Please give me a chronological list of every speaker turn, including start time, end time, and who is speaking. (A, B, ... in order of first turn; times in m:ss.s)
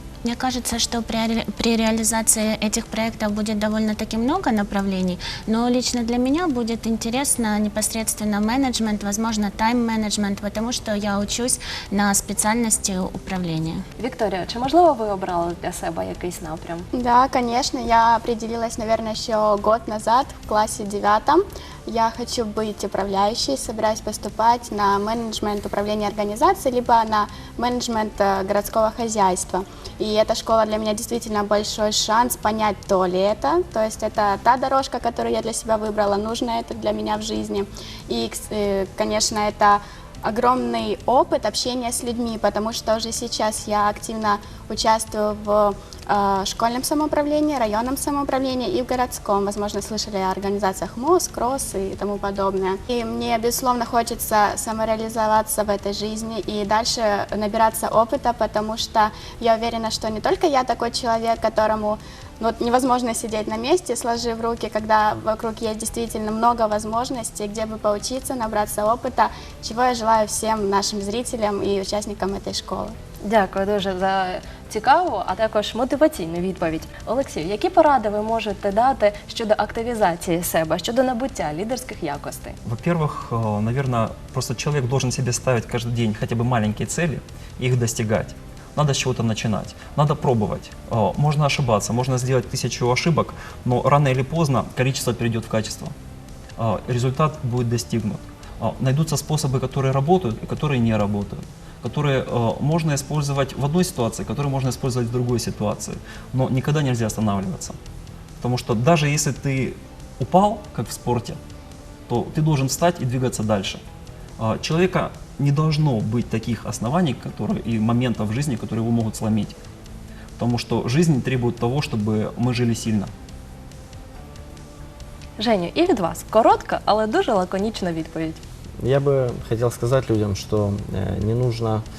0:00.2-0:13.8 A
0:14.0-0:16.9 B
0:16.9-1:12.9 C
1:13.2-1:22.6 B
1:22.6-1:35.9 D
1:36.6-1:47.8 D
1:48.4-1:51.4 D
1:52.1-1:53.8 D
1:54.4-1:59.6 D
2:00.4-2:03.1 D
2:05.4-2:08.4 B
2:08.8-2:11.8 E